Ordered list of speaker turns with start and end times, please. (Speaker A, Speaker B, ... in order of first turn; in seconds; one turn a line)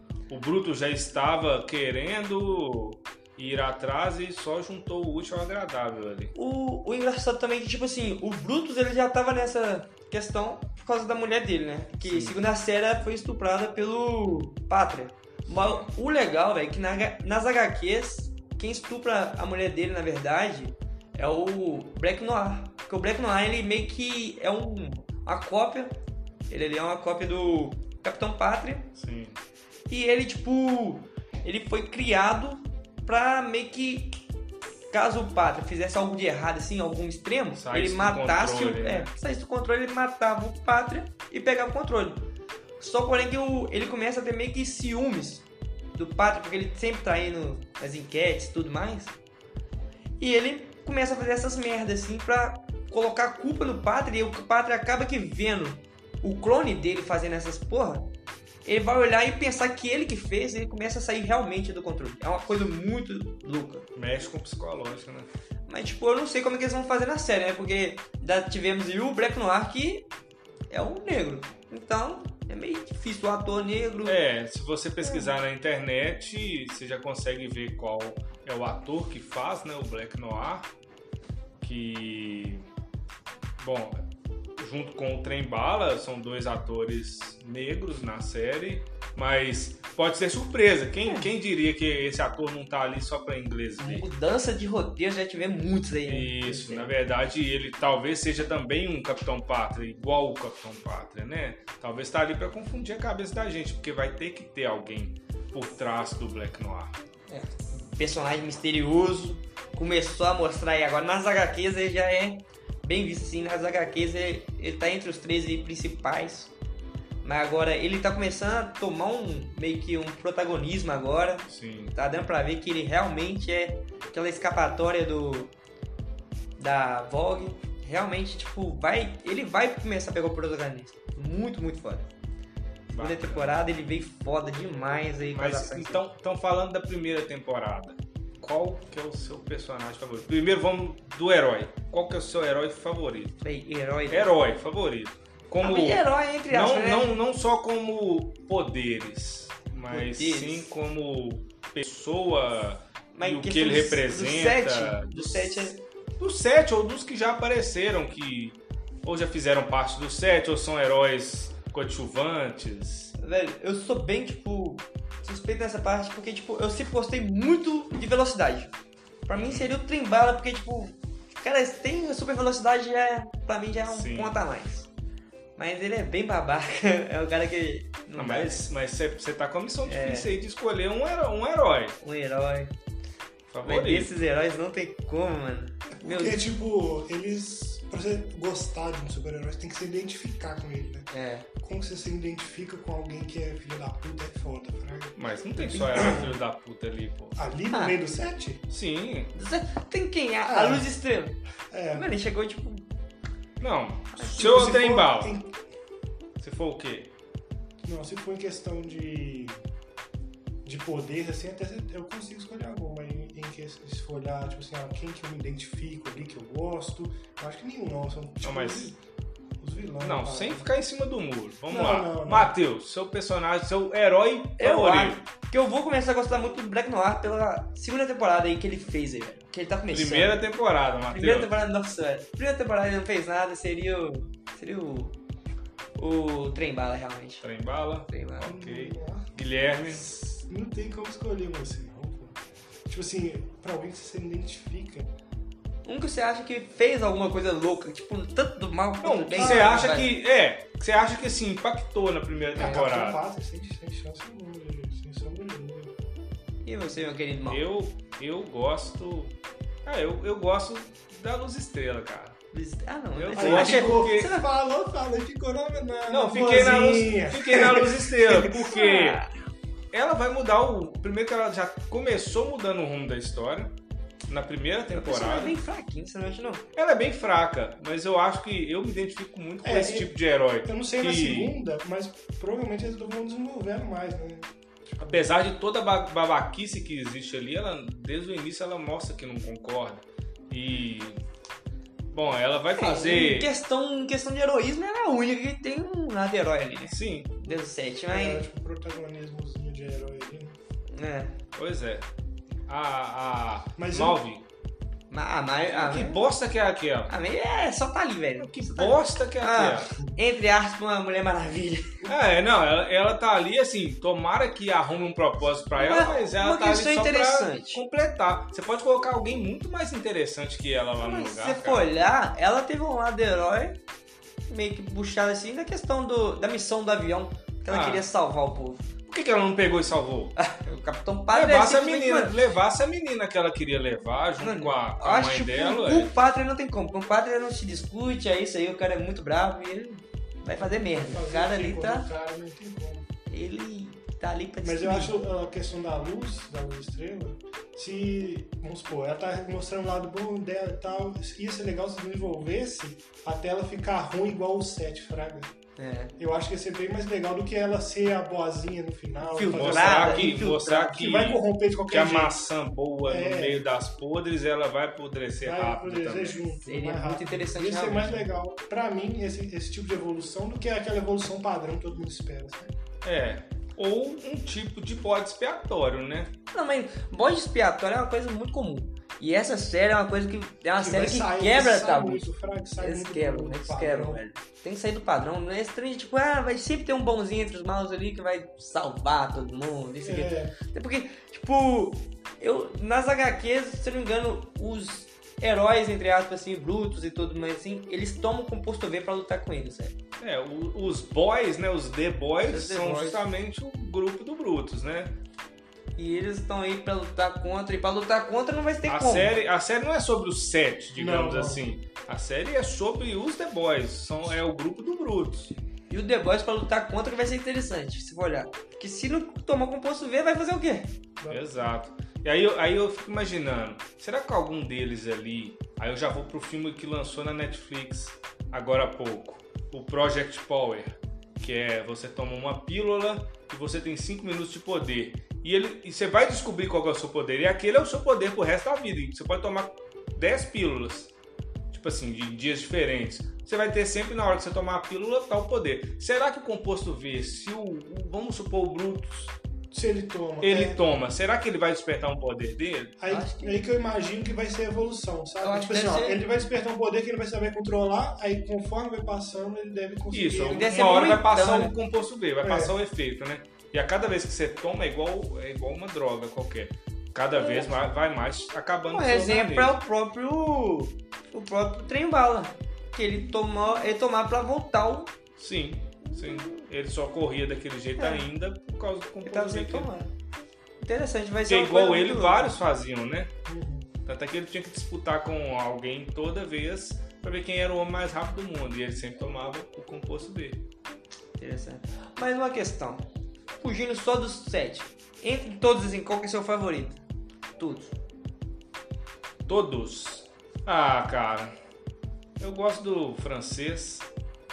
Speaker A: 0.3-6.3
Speaker B: 6.3-26.0
Speaker A: 12.0-12.4
Speaker A: 15.5-15.9
Speaker B: 26.5-28.9
Speaker A: 28.9-29.4
Speaker B: 29.9-34.2
Speaker B: 34.9-42.3
Speaker A: 37.5-39.1
Speaker B: 42.8-49.1
Speaker B: 50.2-58.1
Speaker B: 58.6-63.9
Speaker A: 64.0-65.3
Speaker B: 65.7-70.1
Speaker B: 70.7-74.2
Speaker A: 74.0-80.7
Speaker B: 75.0-75.3
Speaker A: 81.6-82.7
Speaker A: 83.6-84.0
Speaker A: 84.6-94.1
Speaker B: 93.8-96.9
Speaker A: 96.1-106.9
Speaker B: 107.3-116.5
Speaker B: 117.2-125.5
Speaker A: 121.5-122.0
Speaker B: 126.6-132.1
Speaker A: 132.9-133.8
Speaker B: 133.0-136.0
Speaker A: 134.9-143.4
Speaker B: 143.4-144.3
Speaker A: 144.1-163.1
Speaker B: 145.6-147.2
Speaker B: 149.9-150.7
Speaker B: 153.1-155.8
Speaker B: 163.2-168.7
Speaker B: 169.3-174.9
Speaker A: 169.3-169.7
Speaker A: 173.9-174.4
Speaker B: 175.6-178.6
Speaker A: 178.2-182.0
Speaker B: 179.8-180.3
Speaker B: 182.0-182.7
Speaker A: 183.5-184.1
Speaker B: 183.6-186.4
Speaker C: 186.0-191.1
Speaker B: 191.1-191.5
Speaker C: 191.6-196.4
Speaker A: 195.2-197.4
Speaker C: 197.4-198.6
Speaker B: 197.7-198.0
Speaker A: 198.7-199.3
Speaker B: 199.3-201.4
Speaker C: 200.4-200.9
Speaker C: 201.7-202.1
Speaker B: 201.9-202.9
Speaker A: 203.6-205.4
Speaker B: 204.1-204.6
Speaker C: 204.3-205.5
Speaker A: 206.4-207.1
Speaker C: 207.8-209.6
Speaker C: 210.6-219.0
Speaker A: 218.4-218.9
Speaker C: 219.6-220.7
Speaker A: 220.0-225.2
Speaker C: 221.7-222.6
Speaker B: 224.6-230.4
Speaker A: 229.9-231.6
Speaker B: 231.1-235.2
Speaker B: 236.0-237.4
Speaker A: 237.4-240.1
Speaker B: 238.1-238.5
Speaker C: 238.4-239.3
Speaker C: 239.9-245.1
Speaker B: 245.8-250.1
Speaker A: 249.0-253.2
Speaker C: 249.3-249.9
Speaker C: 252.6-255.9
Speaker B: 256.6-257.6
Speaker A: 257.5-262.4
Speaker B: 262.5-264.5
Speaker A: 263.2-264.3
Speaker C: 263.4-268.7
Speaker A: 266.1-269.2
Speaker B: 268.5-269.3
Speaker A: 269.9-273.7
Speaker A: 274.3-275.6
Speaker B: 274.9-276.6
Speaker A: 276.8-281.6
Speaker C: 279.6-280.1
Speaker C: 280.6-285.3
Speaker A: 285.1-291.2
Speaker A: 292.1-293.5
Speaker B: 292.7-298.4
Speaker A: 296.9-297.4
Speaker C: 298.1-300.6
Speaker B: 300.9-301.4
Speaker A: 301.6-302.1
Speaker A: 302.7-304.4
Speaker C: 303.8-304.2
Speaker B: 305.1-306.2
Speaker A: 305.7-307.1
Speaker B: 307.1-312.1
Speaker A: 308.4-309.9
Speaker A: 312.1-321.9
Speaker B: 315.7-317.8
Speaker B: 321.0-323.8
Speaker B: 324.5-328.9
Speaker A: 327.7-328.1
Speaker A: 329.1-330.4
Speaker B: 330.4-332.4
Speaker A: 331.3-336.1
Speaker B: 334.4-342.1
Speaker C: 340.7-343.1
Speaker B: 343.3-345.2
Speaker C: 344.6-355.5
Speaker B: 355.8-356.1
Speaker C: 356.2-362.4
Speaker B: 359.2-361.0
Speaker A: 359.5-366.4
Speaker C: 363.1-363.7
Speaker C: 365.4-372.7
Speaker B: 366.6-368.3
Speaker A: 373.0-376.3
Speaker B: 376.5-382.3
Speaker C: 380.8-384.2
Speaker B: 382.8-399.9
Speaker C: 390.0-390.5
Speaker A: 400.2-405.1
Speaker B: 402.5-403.2
Speaker B: 406.0-409.4
Speaker A: 408.9-415.5
Speaker C: 411.0-411.6
Speaker B: 415.9-420.9
Speaker C: 421.2-421.7
Speaker A: 421.3-441.1
Speaker A: 441.7-449.4
Speaker C: 449.7-450.8
Speaker A: 450.4-452.9
Speaker C: 453.0-460.8
Speaker B: 453.1-453.6
Speaker B: 455.4-456.2
Speaker A: 460.1-469.8
Speaker B: 460.5-461.7
Speaker C: 462.4-462.7
Speaker B: 467.4-467.7
Speaker B: 468.9-475.1
Speaker A: 475.4-479.9
Speaker B: 478.0-478.2
Speaker B: 479.2-480.1
Speaker B: 480.8-482.6
Speaker A: 481.5-483.3
Speaker C: 483.5-483.9
Speaker A: 484.1-490.6
Speaker B: 491.4-493.1
Speaker B: 493.6-497.0
Speaker B: 497.6-497.9
Speaker A: 499.5-501.6
Speaker A: 502.4-504.1